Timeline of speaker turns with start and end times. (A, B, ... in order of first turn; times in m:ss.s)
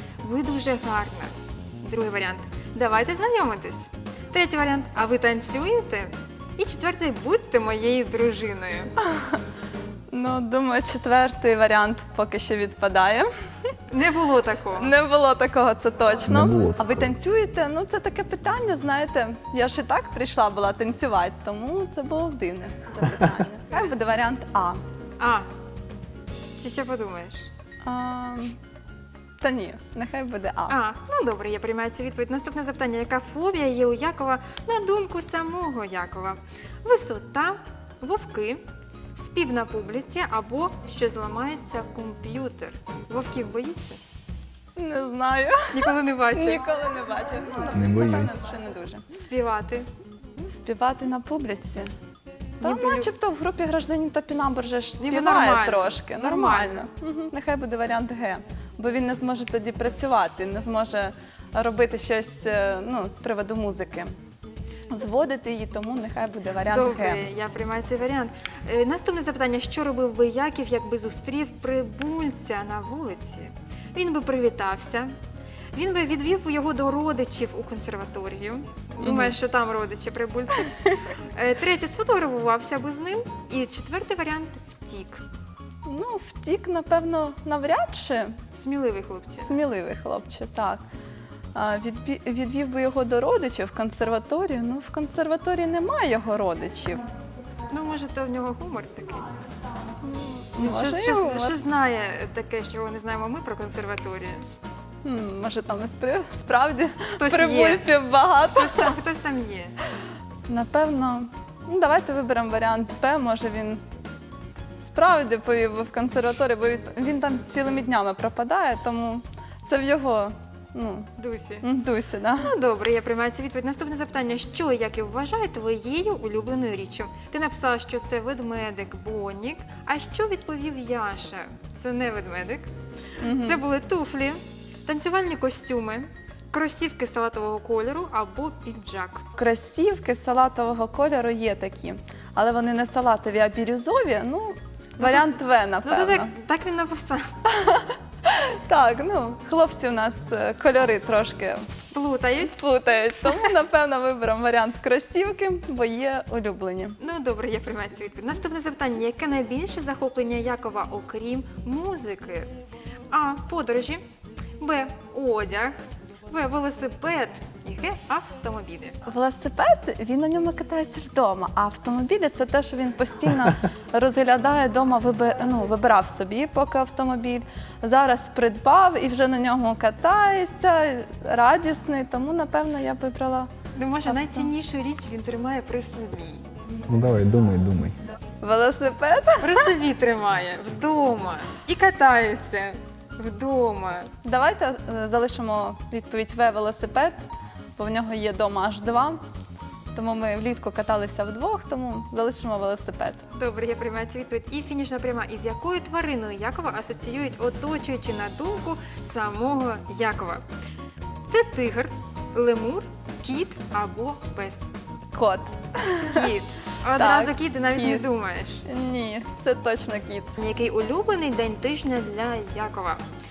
0:00.2-0:08.9 A
0:10.1-0:13.3 B
0:13.9-0:14.9 A
0:14.8-0:24.8 B
0:16.3-0:17.1 C
0:25.2-0:25.5 A
0:26.6-0:27.5 A
0:27.8-0:28.6 B
0:29.4-0:30.8 B
0:30.7-0:38.6 A
0:39.2-0:44.0 A
0:44.8-0:49.0 B
0:45.7-0:46.6 A
0:47.7-0:48.3 C
0:49.1-0:49.9 A
0:50.4-0:51.9 B
0:52.6-1:04.1 B
0:52.6-0:53.1 A
0:55.0-0:56.9 A
1:04.9-1:07.2 B
1:06.7-1:15.1 A
1:15.7-1:20.8 A
1:19.0-1:19.4 B
1:21.4-1:25.2 A
1:25.8-1:28.4 B
1:28.6-1:29.6 A
1:29.5-1:30.8 B
1:31.6-1:37.0 B
1:37.7-1:39.3 A
1:40.0-1:41.6 B
1:40.6-1:44.4 A
1:45.0-1:48.9 B
1:47.2-1:47.9 A
1:48.5-1:49.8 A
1:50.5-1:53.8 B
1:54.8-2:01.1 B
2:01.2-2:01.7 A
2:01.6-2:02.5 B
2:02.4-2:12.7 A
2:13.2-2:13.6 B
2:13.2-2:19.2 A
2:19.4-2:26.3 B
2:25.0-2:25.3 A
2:25.8-2:27.3 A
2:27.5-2:31.6 B
2:31.9-2:32.6 A
2:32.4-2:37.0 B
2:37.0-2:42.5 A
2:43.1-2:44.0 A
2:44.6-2:45.7 A
2:46.3-2:49.0 A
2:49.1-3:03.5 B
3:03.8-3:06.4 A
3:04.1-3:04.5 B
3:06.9-3:08.0 C
3:08.4-3:09.6 B
3:09.4-3:14.1 A
3:14.2-3:17.2 B
3:17.8-3:19.2 B
3:20.0-3:23.2 B
3:23.3-3:30.4 A
3:31.3-3:34.6 A
3:35.1-3:36.3 B
3:36.0-3:38.6 A
3:37.0-3:38.0 B
3:38.7-3:40.3 B
3:40.4-3:43.0 A